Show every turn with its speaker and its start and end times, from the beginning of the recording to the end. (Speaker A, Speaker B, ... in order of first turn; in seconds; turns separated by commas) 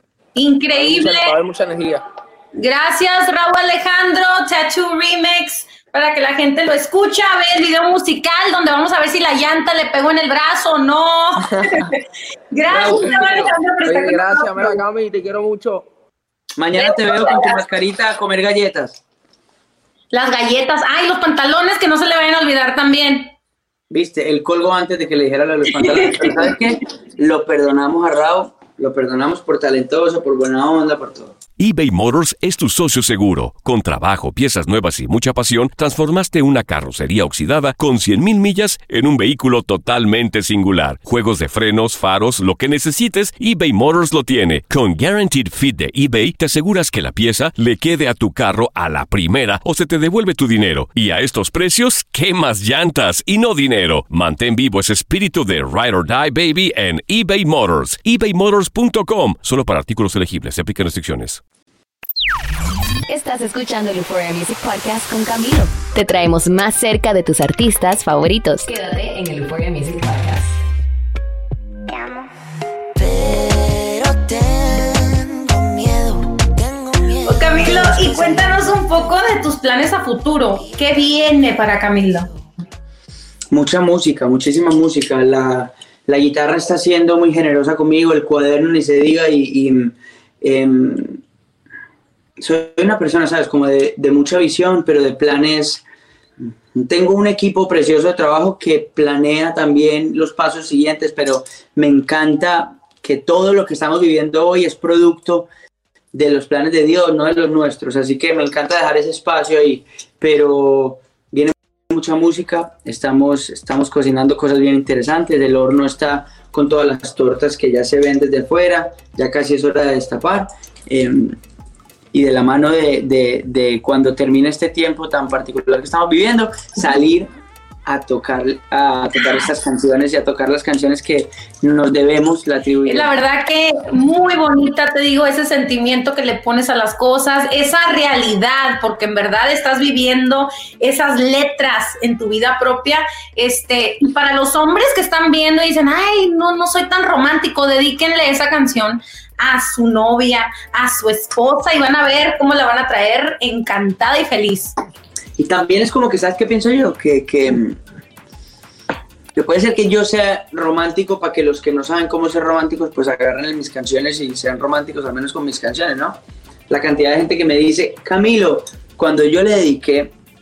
Speaker A: 0.4-1.4, Speaker B: 0.7-2.0, Speaker A: 2.6-12.0, Speaker A: 12.5-14.8, Speaker C: 12.7-13.4, Speaker B: 13.1-15.9, Speaker C: 16.6-19.0, Speaker A: 16.8-17.6, Speaker A: 20.1-23.3, Speaker C: 23.9-31.4, Speaker A: 25.7-26.5, Speaker D: 31.6-61.4, Speaker E: 63.1-70.6, Speaker F: 73.0-79.1, Speaker A: 77.2-82.3, Speaker F: 80.7-81.1, Speaker C: 83.5-91.2, Speaker C: 92.4-95.8, Speaker C: 96.4-105.5, Speaker C: 106.1-121.4, Speaker C: 122.1-127.3, Speaker C: 127.9-133.1, Speaker A: 132.9-154.7, Speaker C: 155.4-157.8, Speaker C: 159.3-166.2, Speaker C: 166.7-170.1